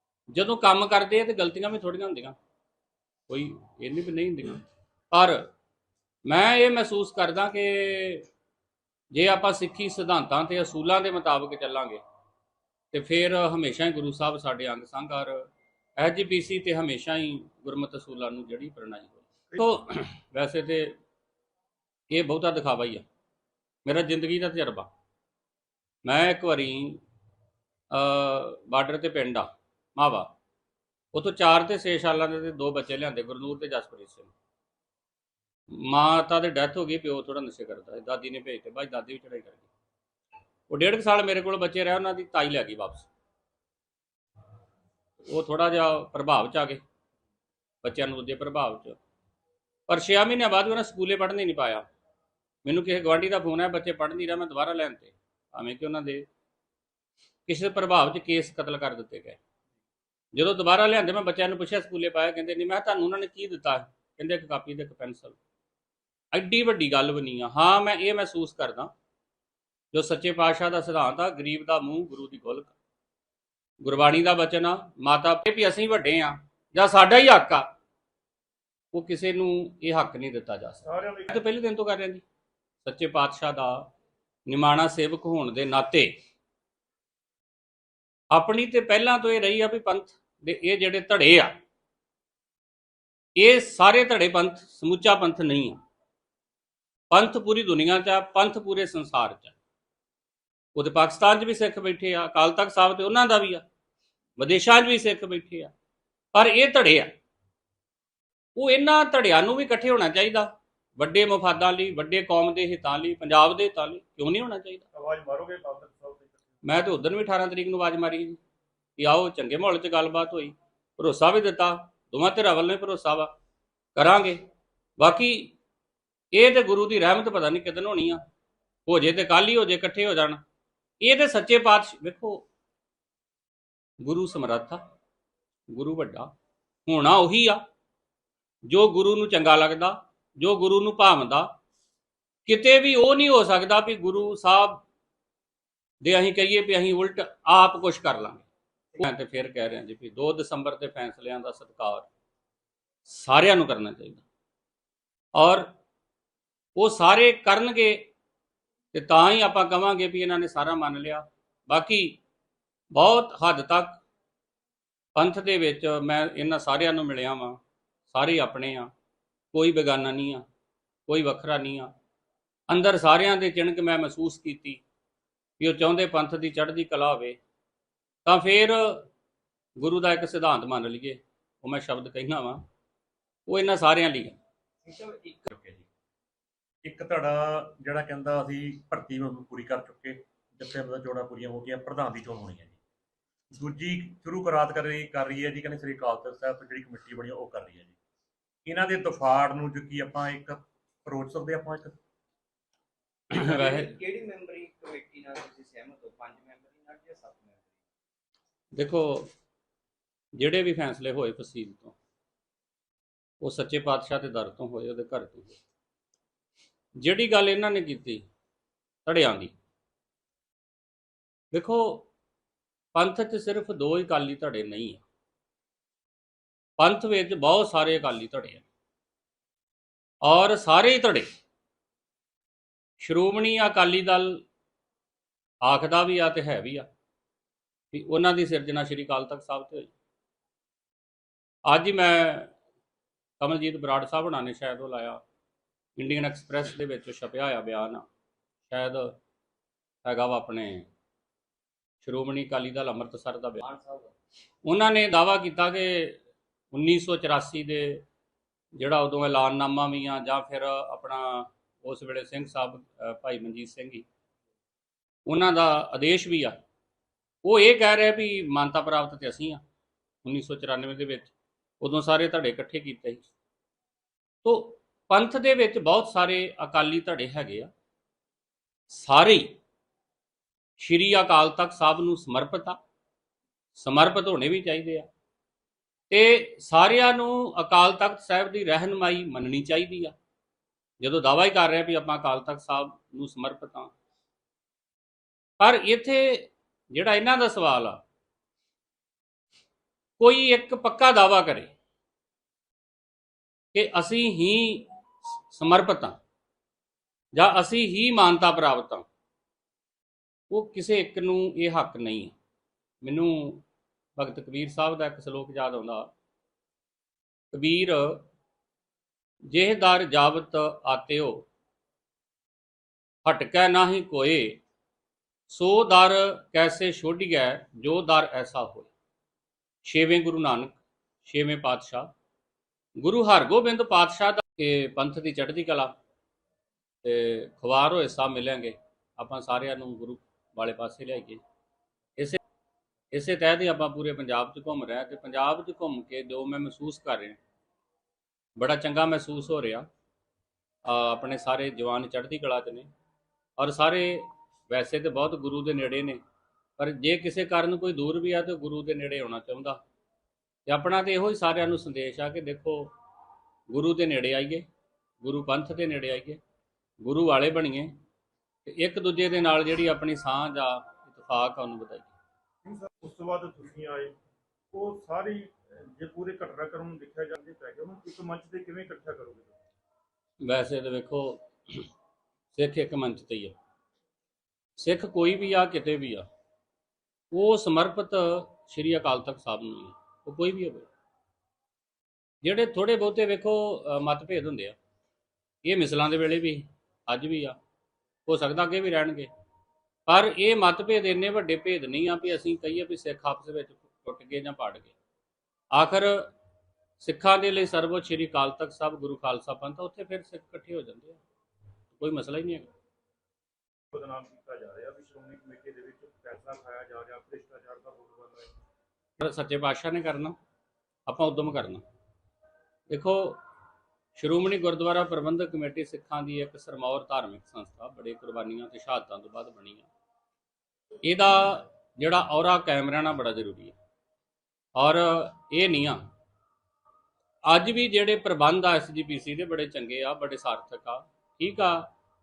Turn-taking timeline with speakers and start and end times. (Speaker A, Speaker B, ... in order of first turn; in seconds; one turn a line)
Speaker A: 0.3-2.4
Speaker A: 3.3-5.5
Speaker A: 6.2-8.3
Speaker A: 9.1-12.0
Speaker A: 12.9-20.9
Speaker A: 22.1-23.0
Speaker A: 23.8-24.9
Speaker A: 26.0-27.0
Speaker A: 27.9-30.3
Speaker A: 31.1-34.3
Speaker A: 35.7-39.7
Speaker A: 40.7-43.1
Speaker A: 45.2-46.8
Speaker A: 47.8-49.0
Speaker A: 49.9-51.8
Speaker A: 52.6-56.2
Speaker A: 57.5-59.4
Speaker A: 60.3-65.4
Speaker A: 66.3-68.9
Speaker A: 69.9-72.8
Speaker A: 73.8-77.7
Speaker A: 78.9-82.2
Speaker B: 80.8-81.3
Speaker A: 82.8-83.9
Speaker A: 84.5-86.1
Speaker A: 88.3-91.5
Speaker A: 93.3-95.8
Speaker A: 97.1-99.5
Speaker A: 100.7-103.7
Speaker A: 104.4-105.7
Speaker A: 106.3-107.1
Speaker A: 108.5-114.8
Speaker B: 114.9-116.5
Speaker A: 116.6-118.4
Speaker A: 119.0-123.3
Speaker A: 124.0-124.4
Speaker A: 125.0-125.5
Speaker A: 126.3-128.2
Speaker A: 128.9-130.4
Speaker A: 131.0-132.5
Speaker A: 134.0-134.8
Speaker A: 135.7-136.3
Speaker A: 136.9-137.6
Speaker A: 138.6-141.5
Speaker A: 142.5-144.8
Speaker A: 146.0-148.5
Speaker A: 149.0-152.1
Speaker A: 153.1-154.2
Speaker A: 155.3-155.7
Speaker A: 156.8-158.1
Speaker A: 158.9-162.2
Speaker A: 162.9-164.0
Speaker A: 165.2-168.9
Speaker A: 169.5-170.4
Speaker A: 171.1-171.9
Speaker A: 172.7-174.8
Speaker A: 175.6-177.4
Speaker A: 178.2-179.1
Speaker A: 179.8-182.6
Speaker A: 183.5-184.4
Speaker C: 184.8-185.5
Speaker D: 185.5-185.9
Speaker D: 186.8-192.8
Speaker D: 193.5-197.9
Speaker D: 198.7-202.0
Speaker A: 203.3-203.9
Speaker C: 203.3-207.7
Speaker A: 208.7-209.3
Speaker A: 210.3-212.0
Speaker A: 213.4-215.6
Speaker A: 217.0-218.2
Speaker A: 219.0-219.5
Speaker A: 221.5-222.1
Speaker A: 222.9-225.0
Speaker A: 226.8-228.7
Speaker A: 230.2-231.3
Speaker A: 233.0-234.4
Speaker A: 235.6-236.9
Speaker A: 237.9-239.9
Speaker A: 241.7-242.5
Speaker A: 243.4-245.2
Speaker A: 246.0-248.1
Speaker A: 248.7-249.2
Speaker A: 250.0-250.9
Speaker A: 252.0-253.6
Speaker C: 253.6-254.1
Speaker A: 254.7-256.2
Speaker A: 256.7-258.0
Speaker A: 258.8-264.1
Speaker A: 265.2-266.6
Speaker A: 267.4-269.6
Speaker A: 270.2-273.3
Speaker A: 274.4-277.7
Speaker A: 278.9-279.5
Speaker A: 280.8-282.8
Speaker A: 283.8-285.1
Speaker A: 286.1-290.1
Speaker A: 291.0-293.9
Speaker A: 295.6-298.0
Speaker A: 300.2-301.7
Speaker A: 303.7-306.2
Speaker A: 307.3-309.1
Speaker A: 310.5-312.4
Speaker A: 313.0-313.6
Speaker A: 314.2-316.1
Speaker A: 317.5-318.3
Speaker A: 319.5-321.5
Speaker A: 323.2-324.6
Speaker A: 325.5-328.9
Speaker A: 329.8-332.1
Speaker A: 333.0-335.9
Speaker A: 337.0-341.4
Speaker A: 343.1-347.4
Speaker A: 348.6-349.9
Speaker A: 350.8-352.9
Speaker A: 353.6-356.2
Speaker A: 356.8-359.8
Speaker A: 360.7-362.9
Speaker A: 363.7-364.6
Speaker A: 365.2-366.4
Speaker A: 367.0-367.9
Speaker A: 368.6-372.1
Speaker B: 372.6-374.1
Speaker B: 374.7-379.5
Speaker A: 380.4-381.9
Speaker A: 382.5-383.5
Speaker A: 384.8-386.3
Speaker A: 387.3-390.9
Speaker A: 392.4-394.8
Speaker A: 395.6-397.6
Speaker A: 398.2-399.3
Speaker A: 400.1-404.9
Speaker A: 405.7-406.3
Speaker A: 407.0-411.2
Speaker A: 411.9-412.7
Speaker B: 413.9-418.5
Speaker A: 419.2-420.4
Speaker A: 421.1-421.8
Speaker A: 422.9-423.4
Speaker A: 424.1-429.9
Speaker A: 431.0-433.8
Speaker A: 434.8-436.0
Speaker A: 437.4-441.9